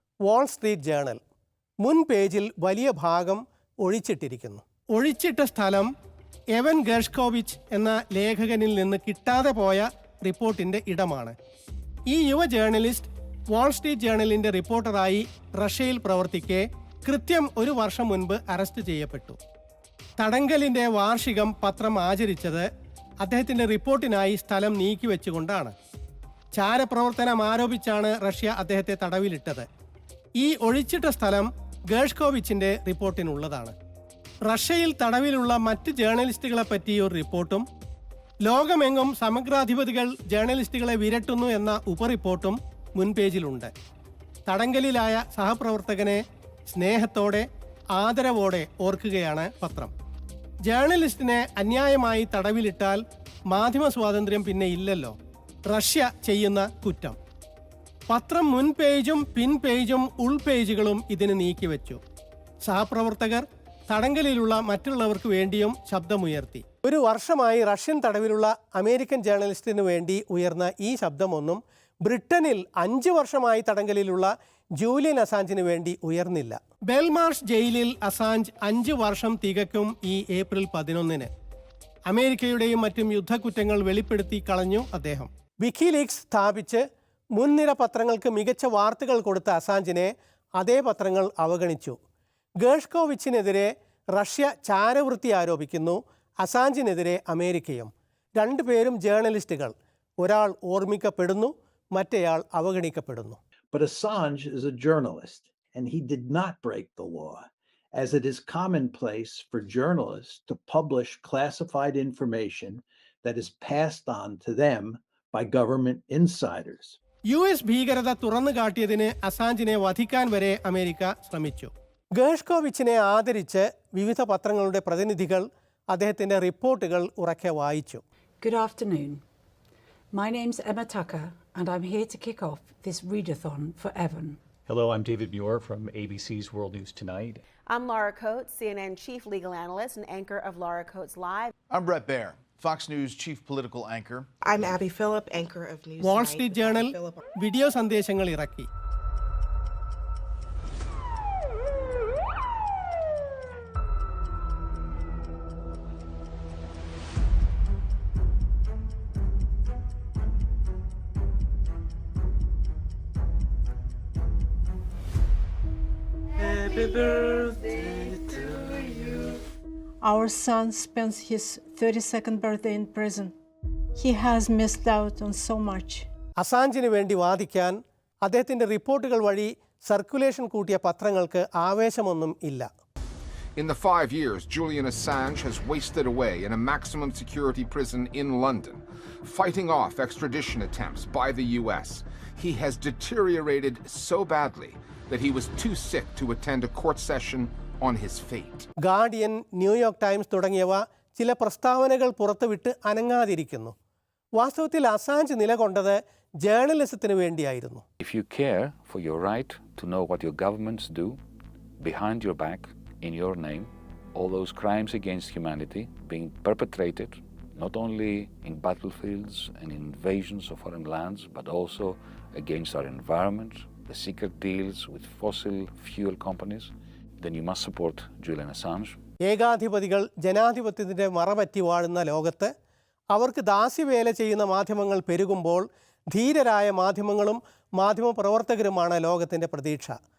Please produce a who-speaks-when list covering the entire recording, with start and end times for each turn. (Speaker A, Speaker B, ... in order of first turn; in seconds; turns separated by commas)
Speaker A: 0.3-1.2, Speaker A: 1.8-5.9, Speaker A: 6.5-11.3, Speaker A: 12.1-19.4, Speaker A: 20.2-22.7, Speaker A: 23.2-25.7, Speaker A: 26.6-29.7, Speaker A: 30.4-33.8, Speaker A: 34.5-37.6, Speaker A: 38.5-43.7, Speaker A: 44.5-49.9, Speaker A: 50.6-55.1, Speaker A: 55.7-57.2, Speaker A: 58.1-62.0, Speaker A: 62.6-81.3, Speaker A: 82.1-86.8, Speaker A: 87.3-92.0, Speaker A: 92.6-103.4, Speaker B: 103.7-117.0, Speaker A: 117.3-128.0, Speaker C: 128.4-129.2, Speaker C: 130.1-134.4, Speaker D: 134.7-137.4, Speaker E: 137.7-141.5, Speaker F: 141.7-144.3, Speaker G: 144.5-147.2, Speaker A: 146.0-148.7, Speaker H: 170.0-173.3, Speaker H: 174.0-176.1, Speaker A: 176.4-182.7, Speaker I: 183.6-198.7, Speaker A: 198.8-203.7, Speaker A: 204.4-207.8, Speaker J: 208.0-211.2, Speaker J: 211.8-229.0, Speaker A: 229.3-232.5, Speaker A: 233.1-239.9